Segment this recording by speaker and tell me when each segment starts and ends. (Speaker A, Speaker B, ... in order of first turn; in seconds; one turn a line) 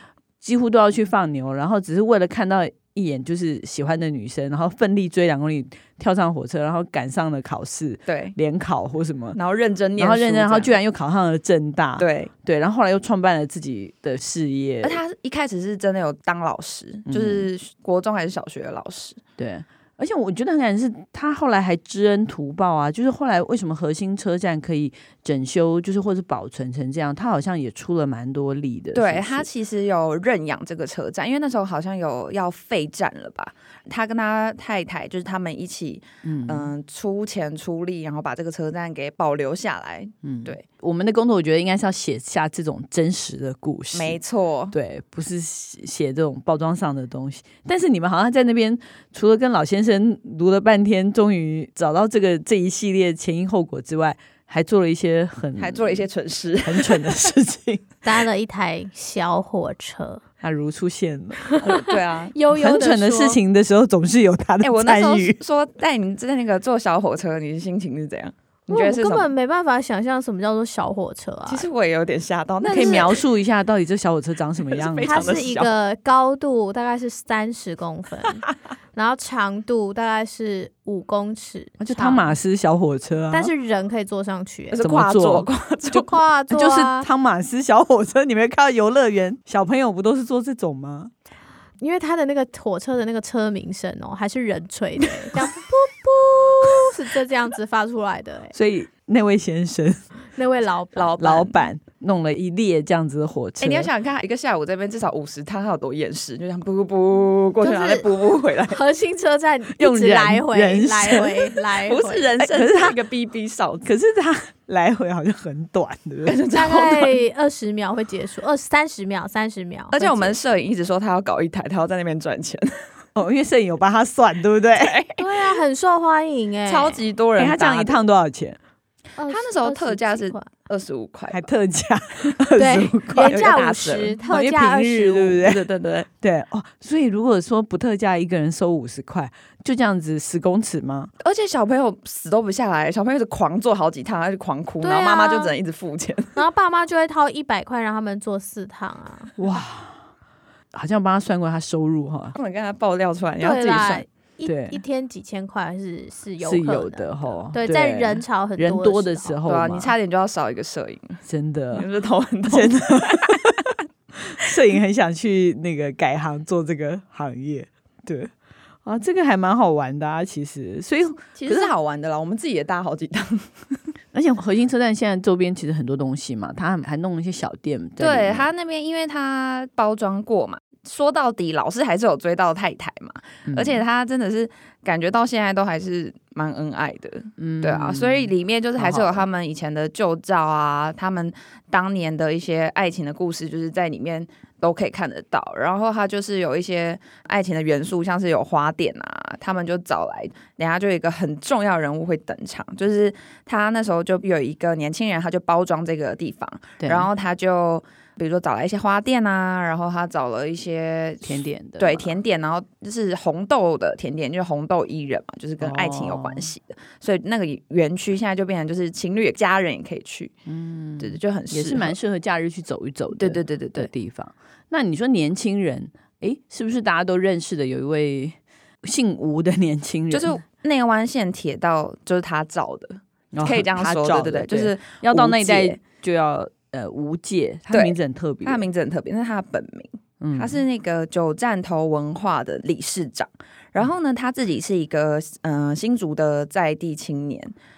Speaker A: 0.4-9.4
Speaker B: 8.1-8.3
Speaker B: 9.3-10.7
Speaker A: 10.0-15.0
Speaker B: 12.0-12.3
Speaker B: 14.8-19.2
Speaker A: 17.1-17.5
Speaker A: 19.4-29.5
Speaker B: 28.9-40.6
Speaker A: 36.2-36.7
Speaker A: 40.2-44.2
Speaker B: 43.9-44.7
Speaker A: 44.7-56.0
Speaker B: 55.6-57.2
Speaker A: 56.6-57.9
Speaker C: 58.0-60.2
Speaker A: 60.4-61.6
Speaker C: 61.5-61.8
Speaker B: 61.6-62.4
Speaker C: 62.3-63.4
Speaker A: 62.5-65.4
Speaker B: 64.6-69.3
Speaker C: 68.7-71.7
Speaker B: 71.5-73.2
Speaker A: 72.6-75.4
Speaker C: 72.8-73.0
Speaker B: 74.6-75.7
Speaker C: 75.0-82.3
Speaker A: 81.8-83.5
Speaker C: 83.3-84.8
Speaker B: 84.7-86.2
Speaker A: 84.8-85.5
Speaker C: 85.9-87.1
Speaker A: 86.5-91.1
Speaker C: 91.8-98.5
Speaker A: 98.5-100.0
Speaker C: 100.3-101.2
Speaker B: 101.0-101.5
Speaker A: 101.2-103.9
Speaker B: 103.6-108.8
Speaker C: 107.6-108.0
Speaker C: 108.7-112.3
Speaker A: 109.8-111.6
Speaker B: 111.8-113.8
Speaker A: 112.4-113.0
Speaker A: 113.8-116.4
Speaker B: 116.2-117.2
Speaker C: 116.5-120.4
Speaker B: 119.9-122.8
Speaker A: 123.2-124.9
Speaker B: 124.7-125.2
Speaker C: 125.2-127.0
Speaker B: 126.7-128.0
Speaker A: 127.4-128.6
Speaker C: 129.2-130.5
Speaker B: 129.3-131.4
Speaker A: 131.3-133.6
Speaker C: 132.6-135.4
Speaker B: 133.1-134.2
Speaker A: 134.2-141.1
Speaker B: 135.2-136.1
Speaker B: 141.2-146.4
Speaker C: 144.8-145.5
Speaker C: 146.3-149.3
Speaker A: 149.3-150.0
Speaker A: 150.7-152.3
Speaker B: 152.3-154.0
Speaker C: 153.4-159.3
Speaker A: 154.4-154.8
Speaker A: 156.4-159.9
Speaker B: 159.4-161.2
Speaker A: 161.2-161.8
Speaker B: 161.7-163.8
Speaker A: 162.5-163.6
Speaker A: 164.2-168.3
Speaker A: 168.8-171.7
Speaker B: 171.4-173.8
Speaker A: 174.1-178.5
Speaker B: 178.0-220.3
Speaker A: 183.5-183.8
Speaker A: 187.4-189.2
Speaker A: 206.8-207.1
Speaker A: 211.2-212.1
Speaker A: 215.6-216.5
Speaker A: 220.5-230.3
Speaker B: 221.0-222.0
Speaker B: 223.1-223.9
Speaker B: 230.1-235.8
Speaker A: 233.3-238.7
Speaker B: 237.7-247.5
Speaker A: 240.2-240.6